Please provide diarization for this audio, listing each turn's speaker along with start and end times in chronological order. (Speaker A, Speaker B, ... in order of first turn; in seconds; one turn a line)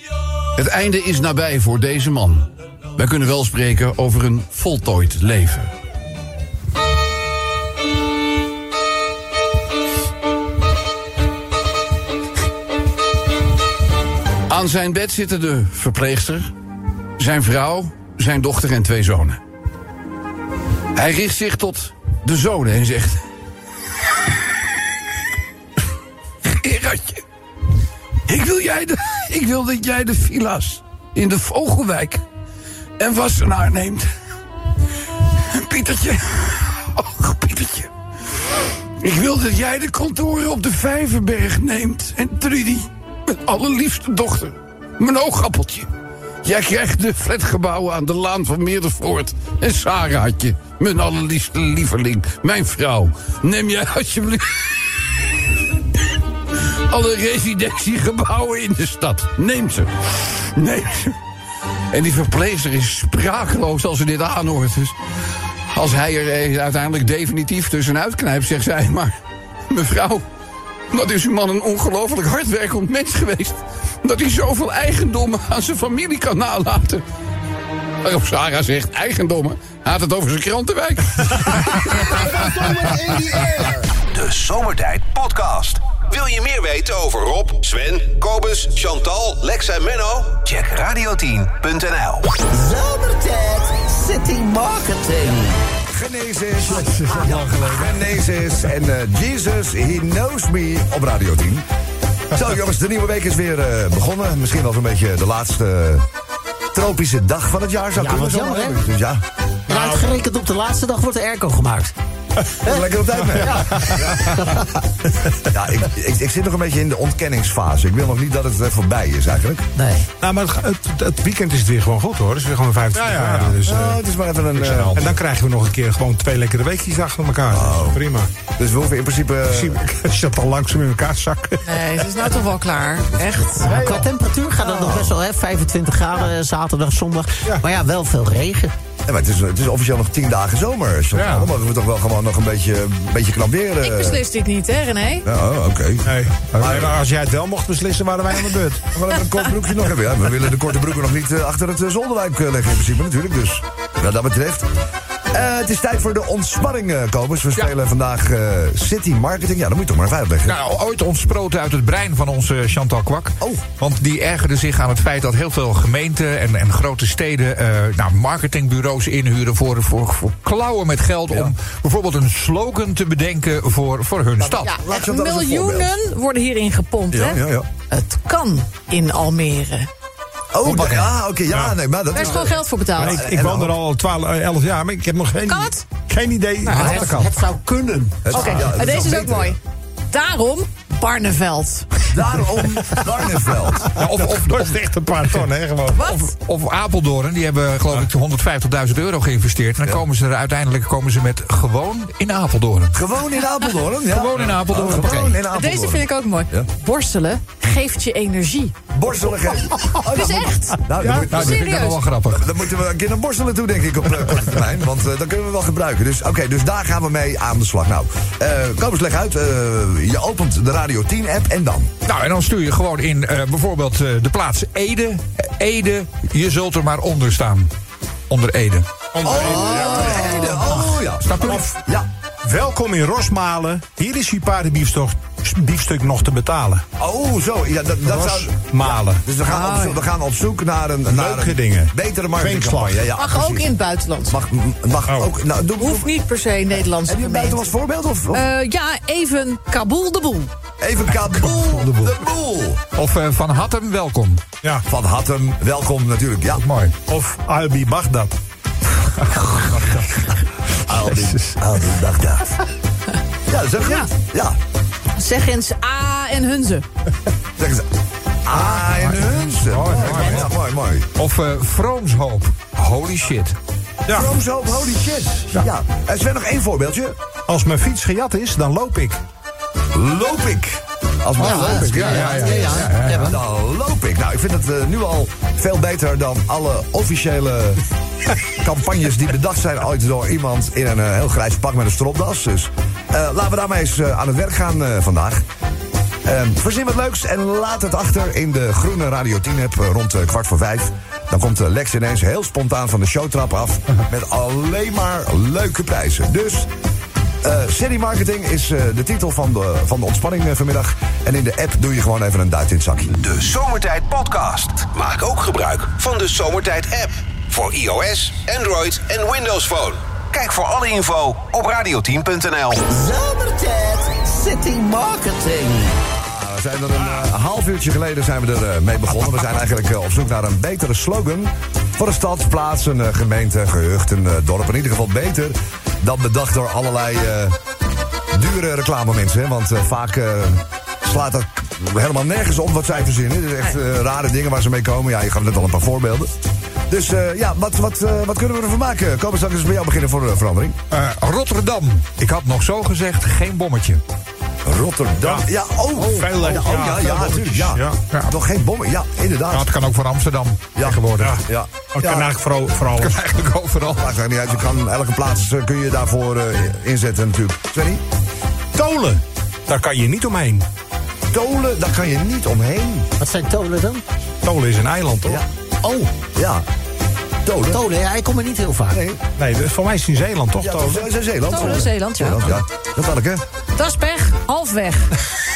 Speaker A: 0.6-5.7
Speaker A: 14.5-16.5
Speaker A: 17.2-19.4
Speaker A: 20.9-23.2
Speaker A: 26.4-27.2
Speaker A: 28.3-32.2
Speaker A: 33.0-34.1
Speaker A: 35.5-37.9
Speaker A: 39.0-45.9
Speaker A: 46.4-54.7
Speaker A: 56.9-61.2
Speaker A: 61.9-65.0
Speaker A: 65.7-69.2
Speaker A: 69.7-70.2
Speaker A: 70.9-77.0
Speaker A: 78.0-82.2
Speaker B: 81.7-83.9
Speaker C: 84.1-92.4
Speaker B: 92.5-95.6
Speaker D: 95.9-101.7
Speaker E: 96.7-98.1
Speaker D: 102.3-106.1
Speaker D: 106.7-109.2
Speaker B: 108.0-108.8
Speaker F: 109.7-110.1
Speaker B: 109.7-111.9
Speaker D: 112.6-114.7
Speaker B: 112.6-114.7
Speaker F: 113.4-114.1
Speaker D: 115.4-119.7
Speaker B: 119.8-120.1
Speaker F: 120.2-124.0
Speaker E: 123.0-123.5
Speaker D: 123.5-125.2
Speaker F: 124.6-128.3
Speaker D: 127.5-128.0
Speaker D: 128.6-129.8
Speaker F: 129.5-132.1
Speaker G: 131.6-133.9
Speaker B: 133.7-138.7
Speaker F: 133.7-134.1
Speaker D: 139.1-144.2
Speaker E: 141.2-141.5
Speaker G: 143.8-145.3
Speaker D: 145.2-147.0
Speaker F: 146.1-148.9
Speaker E: 146.6-146.8
Speaker D: 148.9-154.7
Speaker D: 155.3-160.6
Speaker E: 160.5-174.7
Speaker D: 174.6-175.9
Speaker G: 174.6-179.9
Speaker D: 177.1-177.7
Speaker D: 180.5-183.8
Speaker F: 180.7-181.8
Speaker G: 182.1-183.2
Speaker F: 183.0-187.5
Speaker G: 185.4-185.8
Speaker B: 186.6-188.7
Speaker D: 188.2-189.6
Speaker G: 188.3-192.0
Speaker D: 192.1-193.9
Speaker F: 193.9-196.0
Speaker E: 193.9-194.8
Speaker E: 195.9-203.0
Speaker G: 195.9-196.2
Speaker D: 202.9-206.7
Speaker E: 204.1-205.2
Speaker B: 205.0-205.3
Speaker G: 205.2-208.8
Speaker D: 208.9-211.7
Speaker G: 209.5-212.0
Speaker F: 211.0-211.3
Speaker E: 211.2-212.6
Speaker D: 212.3-221.9
Speaker E: 222.1-227.7
Speaker E: 228.3-228.9
Speaker F: 229.1-230.4
Speaker D: 229.2-232.1
Speaker G: 229.5-230.8
Speaker E: 231.2-231.7
Speaker F: 231.4-231.8
Speaker F: 232.4-236.8
Speaker D: 237.0-243.7
Speaker F: 238.1-239.2
Speaker G: 239.4-240.0
Speaker F: 241.1-243.1
Speaker G: 243.2-244.4
Speaker D: 244.3-246.1
Speaker G: 245.8-247.7
Speaker D: 247.1-248.5
Speaker G: 248.3-250.5
Speaker D: 250.8-252.8
Speaker E: 251.8-252.1
Speaker E: 252.9-254.4
Speaker D: 254.9-256.6
Speaker E: 256.6-256.9
Speaker F: 257.1-258.4
Speaker E: 259.2-260.2
Speaker D: 260.9-262.6
Speaker E: 261.0-261.4
Speaker D: 263.5-264.6
Speaker G: 263.8-264.1
Speaker G: 265.2-266.9
Speaker D: 267.6-267.9
Speaker D: 268.5-271.1
Speaker F: 268.5-270.5
Speaker E: 270.0-270.4
Speaker E: 271.2-273.6
Speaker D: 274.1-277.2
Speaker F: 277.5-279.2
Speaker D: 279.9-287.8
Speaker B: 281.4-283.4
Speaker F: 281.4-283.1
Speaker E: 282.7-283.3
Speaker D: 288.5-295.5
Speaker D: 296.2-306.7
Speaker D: 307.4-313.2
Speaker C: 313.1-322.9
Speaker B: 322.9-326.0
Speaker D: 326.0-337.6
Speaker D: 338.3-346.3
Speaker D: 346.9-350.8
Speaker E: 350.9-354.0
Speaker D: 354.6-359.7
Speaker F: 355.2-358.0
Speaker E: 359.5-361.4
Speaker D: 360.8-362.3
Speaker F: 361.2-363.2
Speaker E: 363.0-364.1
Speaker D: 363.9-368.0
Speaker F: 368.7-370.7
Speaker D: 371.3-373.1
Speaker B: 373.2-374.0
Speaker F: 374.4-375.4
Speaker D: 375.2-376.7
Speaker D: 377.4-377.8
Speaker B: 377.7-379.0
Speaker D: 378.9-379.2
Speaker F: 379.4-381.1
Speaker D: 380.6-383.4
Speaker G: 381.4-382.6
Speaker G: 383.8-385.2